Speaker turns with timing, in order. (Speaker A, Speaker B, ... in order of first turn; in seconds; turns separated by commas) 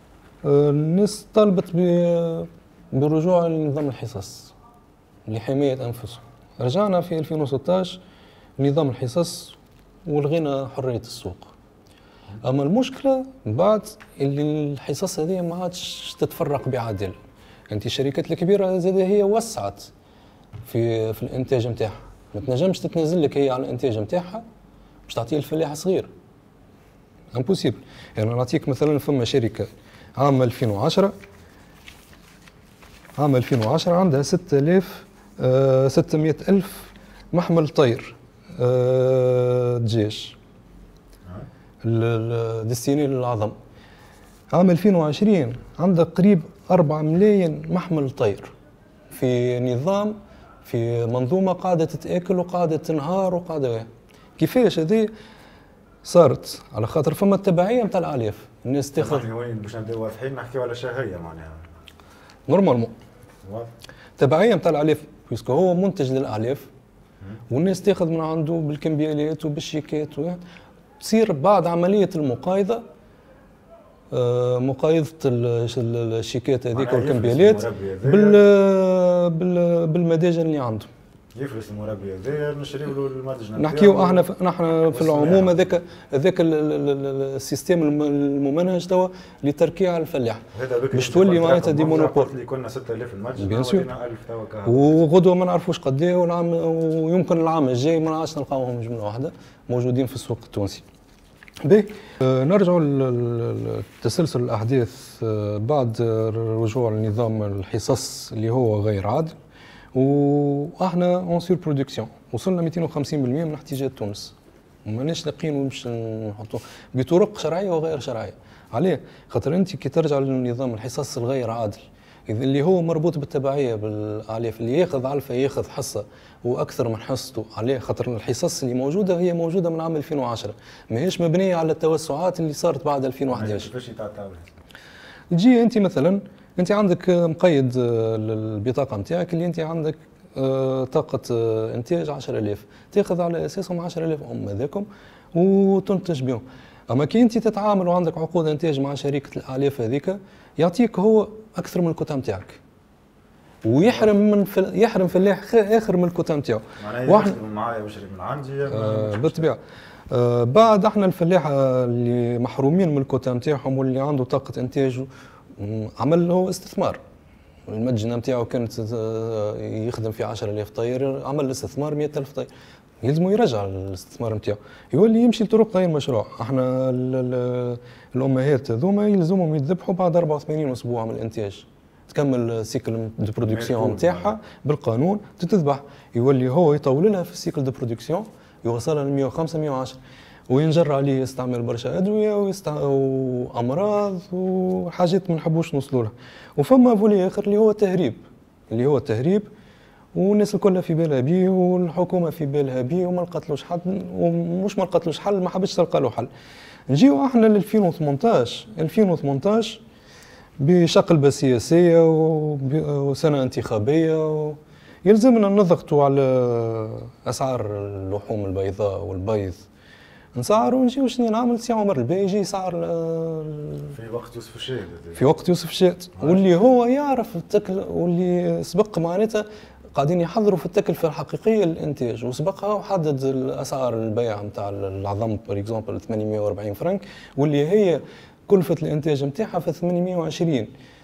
Speaker A: 0.4-4.5, Speaker A: 5.2-8.0, Speaker A: 8.6-11.5, Speaker A: 12.4-17.2, Speaker A: 17.7-19.9, Speaker A: 20.6-24.4, Speaker A: 25.1-26.1, Speaker A: 27.3-31.1, Speaker A: 33.2-40.4, Speaker A: 41.8-43.5, Speaker A: 44.5-48.5, Speaker A: 49.1-55.1, Speaker A: 56.0-59.2, Speaker B: 59.0-61.6, Speaker A: 62.5-62.9, Speaker B: 63.4-63.7, Speaker A: 64.2-66.7, Speaker A: 67.5-70.4, Speaker A: 71.0-72.8, Speaker A: 74.1-80.9, Speaker B: 76.7-78.4, Speaker B: 81.3-84.3, Speaker A: 83.6-92.3, Speaker B: 84.9-85.6, Speaker B: 90.5-95.0, Speaker A: 93.4-93.8, Speaker A: 94.7-100.8, Speaker A: 101.6-109.3, Speaker A: 109.9-133.7, Speaker B: 133.3-134.5, Speaker A: 135.3-152.6, Speaker A: 153.6-157.3, Speaker B: 153.8-154.1, Speaker B: 156.8-159.4, Speaker A: 158.7-167.0, Speaker A: 167.7-172.5, Speaker A: 173.0-190.0, Speaker B: 183.4-184.3, Speaker A: 190.5-199.5, Speaker A: 200.1-206.3, Speaker A: 206.9-209.8, Speaker A: 210.6-219.6, Speaker A: 220.3-223.9, Speaker B: 223.9-225.2, Speaker A: 225.2-240.7